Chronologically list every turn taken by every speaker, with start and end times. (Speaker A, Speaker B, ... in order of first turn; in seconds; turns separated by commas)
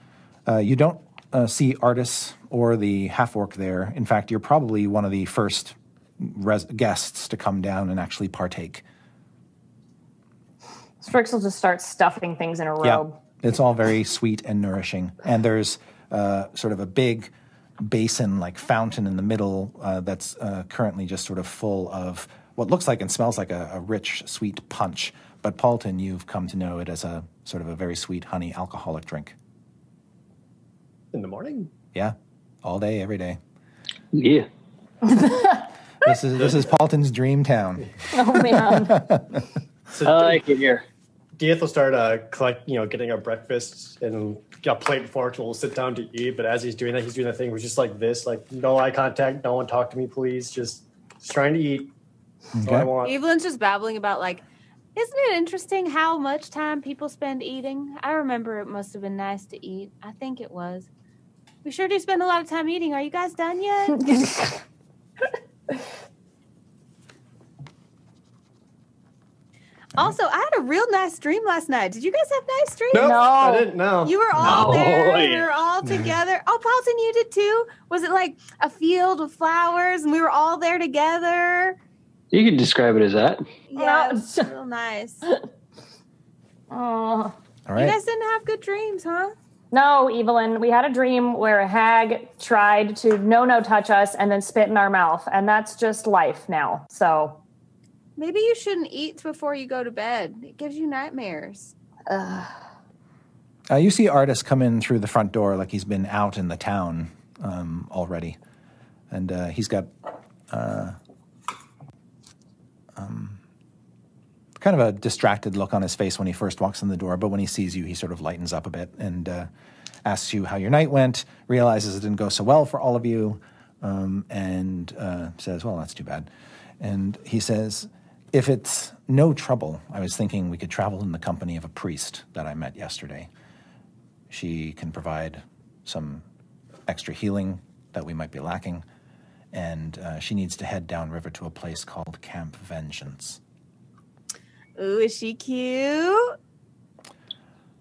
Speaker A: 0.5-8.8, Speaker B: 11.0-13.2, Speaker A: 12.8-29.4, Speaker C: 31.1-31.7, Speaker A: 31.9-33.4, Speaker D: 34.1-34.5, Speaker B: 35.1-35.6, Speaker A: 36.0-37.9, Speaker C: 36.4-36.6, Speaker B: 38.1-39.0, Speaker A: 38.5-39.4, Speaker C: 39.9-40.4, Speaker D: 40.0-40.8, Speaker C: 41.4-51.9, Speaker A: 52.6-52.9, Speaker C: 52.6-53.1, Speaker E: 53.0-54.4, Speaker E: 55.0-60.9, Speaker E: 61.6-64.2, Speaker B: 64.0-64.6, Speaker E: 70.0-73.2, Speaker C: 72.9-74.8, Speaker B: 73.0-73.8, Speaker E: 74.0-81.8, Speaker D: 74.4-75.5, Speaker D: 82.3-83.5, Speaker E: 83.7-85.2, Speaker B: 83.8-84.5, Speaker B: 86.7-87.4, Speaker A: 87.7-88.0, Speaker E: 87.8-89.3, Speaker B: 89.7-97.4, Speaker E: 98.2-101.7, Speaker B: 102.1-102.5, Speaker A: 103.7-108.4, Speaker A: 109.1-109.9, Speaker A: 110.5-111.0, Speaker A: 113.0-113.4, Speaker A: 114.6-119.5, Speaker A: 120.0-126.3, Speaker A: 126.8-133.3, Speaker A: 134.3-136.2, Speaker A: 136.9-138.8, Speaker A: 139.5-143.4, Speaker E: 144.8-146.4